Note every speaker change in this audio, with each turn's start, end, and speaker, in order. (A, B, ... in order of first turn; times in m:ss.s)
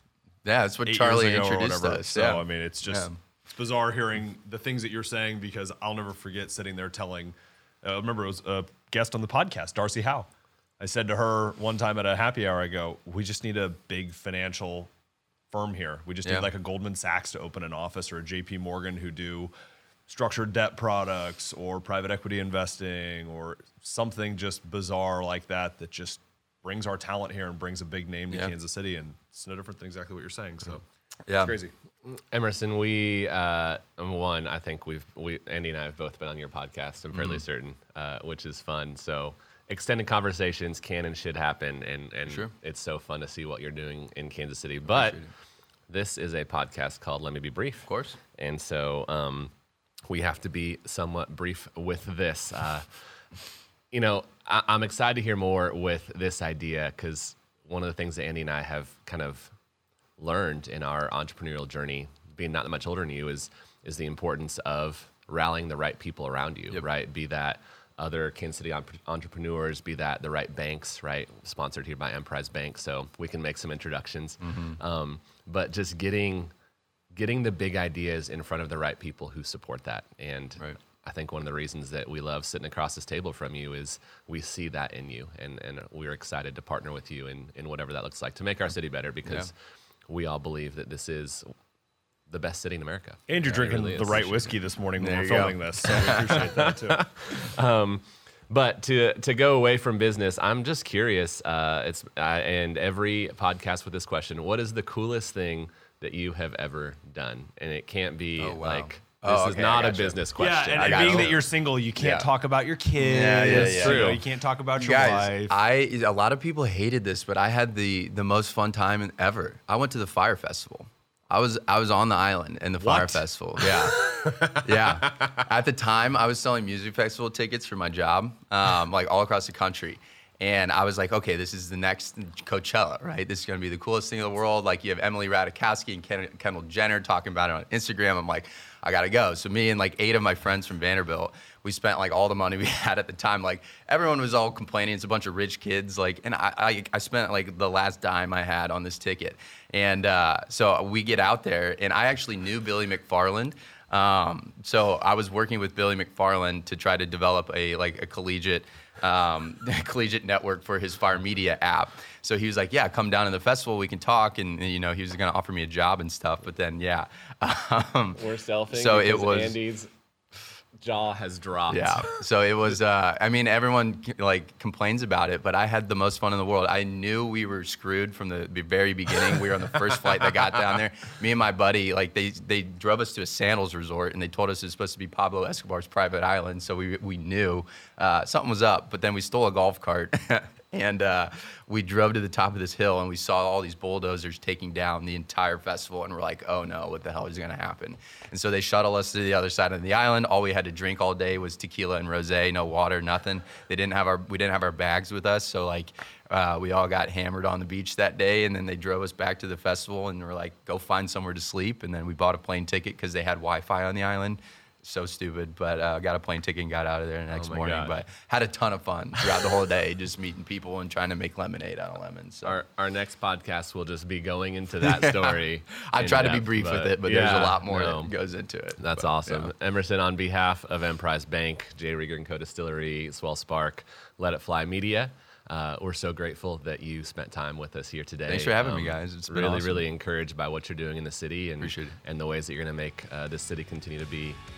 0:00.4-0:03.2 A
0:00.8-0:10.3 B
0:10.8-0:14.9 B
0:15.5-0:19.5 B
0:16.2-0:16.5 A
0:20.1-0:30.8 B
0:31.2-0:31.6 A
0:31.4-0:31.7 B
0:32.0-0:45.3 C
0:37.1-0:37.4 A
0:42.2-0:42.5 A
0:44.9-0:45.3 A
0:45.9-0:49.5 C
0:47.8-0:48.2 A
0:50.1-0:53.2 C
0:53.9-0:59.5 C
1:00.2-1:16.5 C
1:14.4-1:14.8 A
1:17.1-1:29.5 C
1:29.2-1:29.5 A
1:30.1-1:31.5 C
1:32.3-1:34.8 C
1:33.3-1:37.0 B
1:35.0-1:36.4 A
1:35.8-1:51.4 C
1:48.4-1:50.2 A
1:50.4-1:55.6 B
1:50.7-1:52.3 A
1:53.0-1:54.2 A
1:53.7-1:54.2 C
1:54.7-2:49.6 A
2:02.8-2:03.2 B
2:03.6-2:05.2 C
2:48.2-2:49.9 C
2:50.8-2:52.2 C
2:51.7-3:42.6 A
3:37.3-3:38.0 C
3:39.2-3:39.6 C
3:42.4-3:48.2 C
3:44.8-3:49.5 A
3:48.8-4:04.4 C
3:58.3-3:59.9 A
4:01.6-4:02.0 A